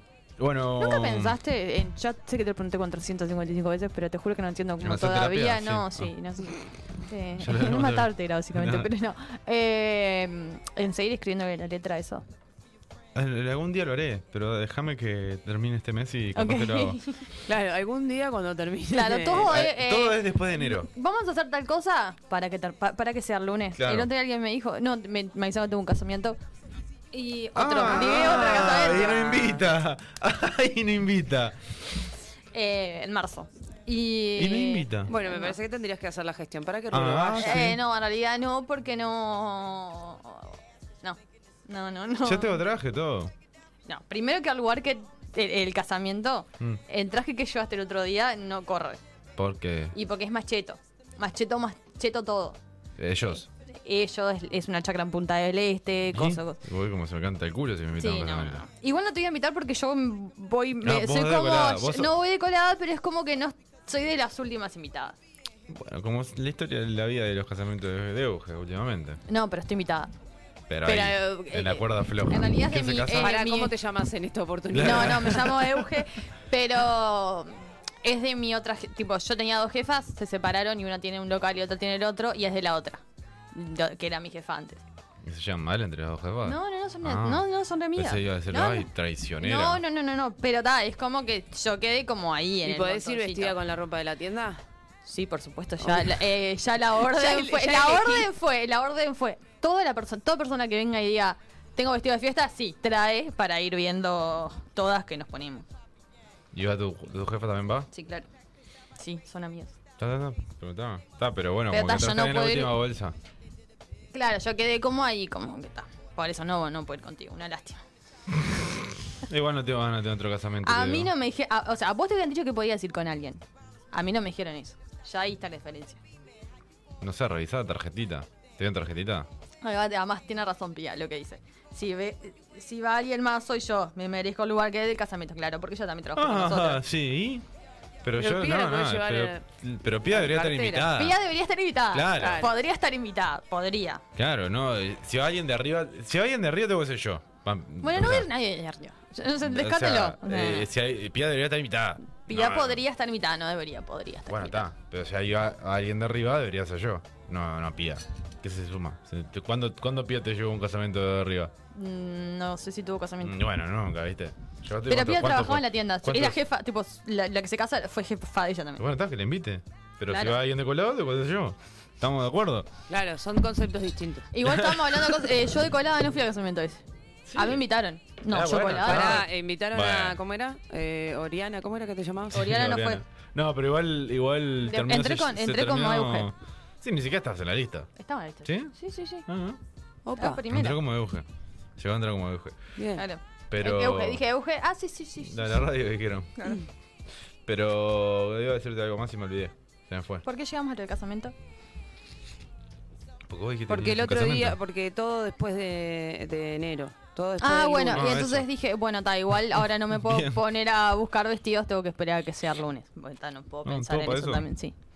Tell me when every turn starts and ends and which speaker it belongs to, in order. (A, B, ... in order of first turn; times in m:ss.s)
0:00.4-0:01.4 A
0:00.8-0:12.2 B
0:04.8-0:06.1 A
0:07.4-0:08.9 A
0:13.1-0:17.0 A
0:16.3-0:17.2 B
0:17.4-0:19.6 C
0:18.9-0:26.4 B
0:19.4-0:20.9 A
0:23.8-0:24.1 A
0:27.1-0:29.6 B
0:27.5-0:31.7 A
0:27.9-0:29.2 C
0:32.5-0:35.6 B
0:34.4-0:35.1 A
0:35.1-0:37.7 C
0:36.9-0:37.8 A
0:37.4-0:42.6 B
0:42.2-0:43.3 A
0:43.9-0:49.0 B
0:49.4-0:49.9 A
0:49.9-0:52.6 B
0:53.0-0:53.5 A
0:53.3-0:56.6 B
0:56.1-0:58.6 A
0:58.0-1:05.2 B
1:00.8-1:02.1 A
1:05.7-1:09.2 A
1:09.3-1:10.1 B
1:10.7-1:13.4 A
1:10.8-1:13.7 B
1:13.2-1:15.5 C
1:14.7-1:15.8 A
1:14.8-1:23.0 B
1:23.5-1:24.8 B
1:25.2-1:29.8 A
1:26.4-1:28.9 B
1:29.4-1:33.5 B
1:32.6-1:34.6 C
1:35.0-1:45.6 B
1:35.8-1:36.2 C
1:37.0-1:38.3 C
1:46.5-1:47.9 A
1:47.9-1:48.3 B
1:49.0-1:49.7 B
1:50.0-1:53.1 A
1:51.7-1:52.8 B
1:54.1-1:57.8 B
1:59.2-2:01.1 A
2:00.6-2:06.0 B
2:07.0-2:09.3 A
2:09.6-2:16.8 B
2:16.1-2:17.4 A
2:18.0-2:21.2 A
2:18.2-2:19.4 C
2:20.1-2:20.9 C
2:20.9-2:24.0 B
2:21.9-2:22.5 A
2:22.2-2:22.5 C
2:24.2-2:28.3 A
2:27.8-2:30.7 B
2:29.4-2:32.8 A
2:32.3-2:34.7 B
2:34.3-2:41.5 A
2:41.7-2:43.4 B
2:43.2-2:46.4 A
2:44.9-2:48.8 B
2:48.8-2:52.7 A
2:50.1-2:50.4 B
2:52.9-2:54.3 C
2:54.3-2:56.8 B
2:54.4-2:55.3 A
2:57.3-2:57.6 A
2:57.3-2:59.2 B
2:58.3-3:00.2 A
2:58.8-3:02.4 C
3:02.3-3:07.9 A
3:02.3-3:03.0 B
3:04.6-3:06.3 B
3:08.0-3:09.2 B
3:08.4-3:08.7 A
3:09.2-3:09.6 A
3:10.0-3:10.4 C
3:10.2-3:10.8 B
3:10.5-3:12.6 A
3:12.8-3:13.0 C
3:13.0-3:15.6 B
3:13.5-3:14.2 A
3:15.2-3:16.5 A
3:17.4-3:20.2 A
3:20.2-3:21.3 B
3:23.3-3:24.6 A
3:23.7-3:28.1 C
3:27.4-3:34.7 B
3:27.9-3:28.5 A
3:29.6-3:30.4 A
3:33.6-3:34.5 A